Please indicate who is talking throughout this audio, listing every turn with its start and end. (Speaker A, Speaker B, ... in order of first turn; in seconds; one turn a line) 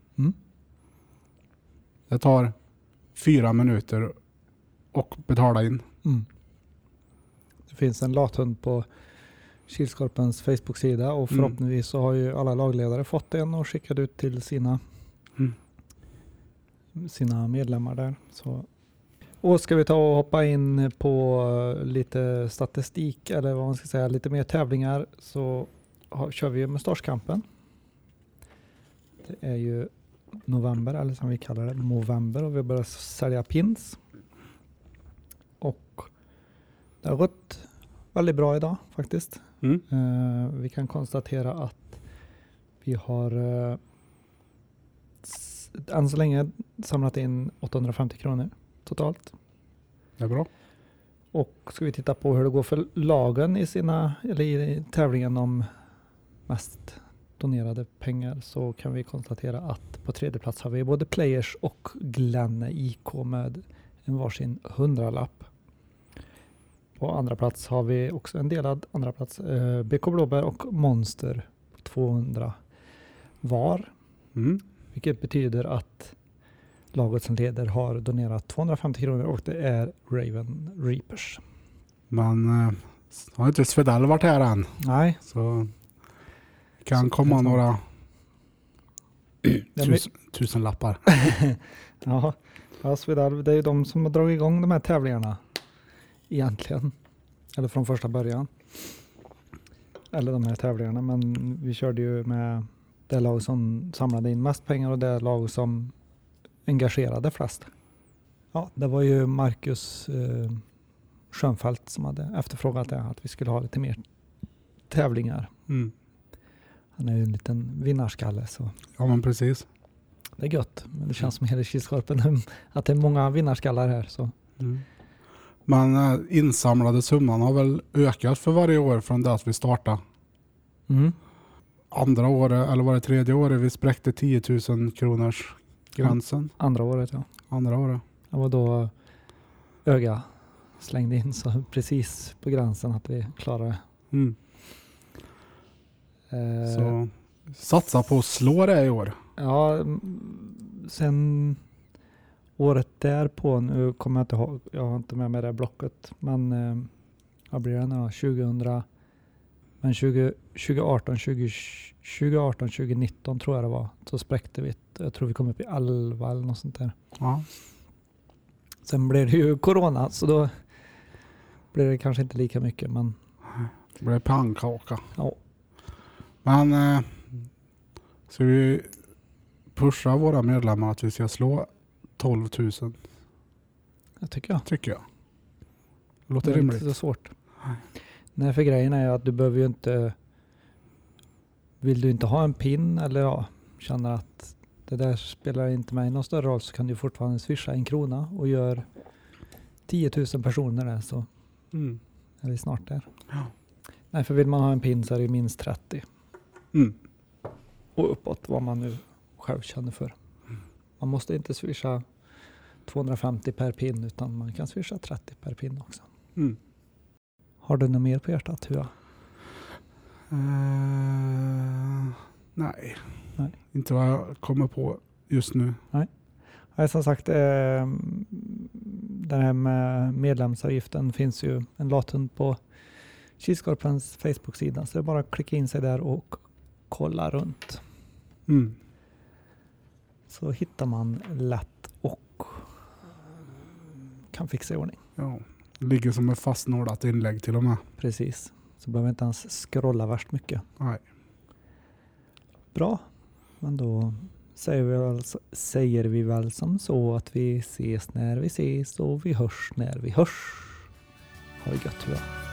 Speaker A: 2.1-2.5
Speaker A: 3.1-4.1
Speaker A: 4.9-5.8
Speaker B: 7.7-8.9
Speaker B: 9.7-14.8
Speaker B: 17.0-18.7
Speaker B: 19.4-27.4
Speaker B: 29.2-29.9
Speaker B: 30.5-34.0
Speaker B: 35.6-36.1
Speaker B: 37.0-42.0
Speaker B: 42.8-43.8
Speaker B: 45.2-49.3
Speaker A: 50.2-50.5
Speaker B: 51.3-55.7
Speaker B: 56.5-65.5
Speaker B: 67.0-72.5
Speaker B: 73.4-73.9
Speaker A: 74.4-74.6
Speaker B: 74.9-76.2
Speaker B: 76.9-81.4
Speaker A: 82.1-85.7
Speaker B: 84.8-85.2
Speaker A: 86.8-87.8
Speaker B: 87.2-87.6
Speaker A: 89.5-91.2
Speaker B: 89.8-90.1
Speaker B: 91.1-95.4
Speaker B: 96.3-96.9
Speaker B: 97.5-98.5
Speaker B: 100.1-105.9
Speaker B: 106.7-107.7
Speaker B: 108.5-110.6
Speaker B: 111.3-114.0
Speaker B: 114.9-115.5
Speaker A: 115.7-115.9
Speaker B: 117.0-118.8
Speaker A: 119.0-119.7
Speaker B: 120.4-124.3
Speaker A: 125.7-130.0
Speaker B: 130.9-131.2
Speaker A: 131.9-136.5
Speaker B: 135.9-137.3
Speaker A: 137.5-138.0
Speaker B: 138.3-138.9
Speaker B: 139.8-140.2
Speaker B: 140.8-143.8
Speaker A: 144.1-144.4
Speaker B: 146.3-147.0
Speaker A: 146.7-149.2
Speaker B: 149.4-151.6
Speaker B: 152.6-156.9
Speaker B: 157.5-158.8
Speaker B: 159.8-166.9
Speaker A: 167.2-167.5
Speaker B: 168.9-170.5
Speaker B: 171.7-173.2
Speaker A: 174.0-175.0
Speaker A: 176.4-177.3
Speaker A: 178.3-178.9
Speaker A: 179.8-183.0
Speaker B: 184.2-184.7
Speaker A: 184.7-185.0
Speaker A: 186.3-186.9
Speaker B: 186.4-187.3
Speaker B: 188.4-190.2
Speaker B: 191.8-198.8
Speaker B: 199.9-201.3
Speaker A: 201.7-202.0
Speaker B: 202.4-203.1
Speaker B: 204.1-206.1
Speaker B: 208.0-210.2
Speaker B: 211.0-212.0
Speaker B: 212.9-216.1
Speaker B: 217.6-218.9
Speaker A: 220.3-223.0
Speaker A: 223.7-225.8
Speaker B: 226.8-232.6
Speaker B: 233.4-237.8
Speaker A: 238.5-238.8
Speaker B: 240.3-242.7
Speaker B: 244.3-245.0
Speaker A: 245.2-247.8
Speaker B: 248.0-250.6
Speaker B: 252.7-253.0
Speaker B: 253.6-260.9
Speaker B: 261.6-262.3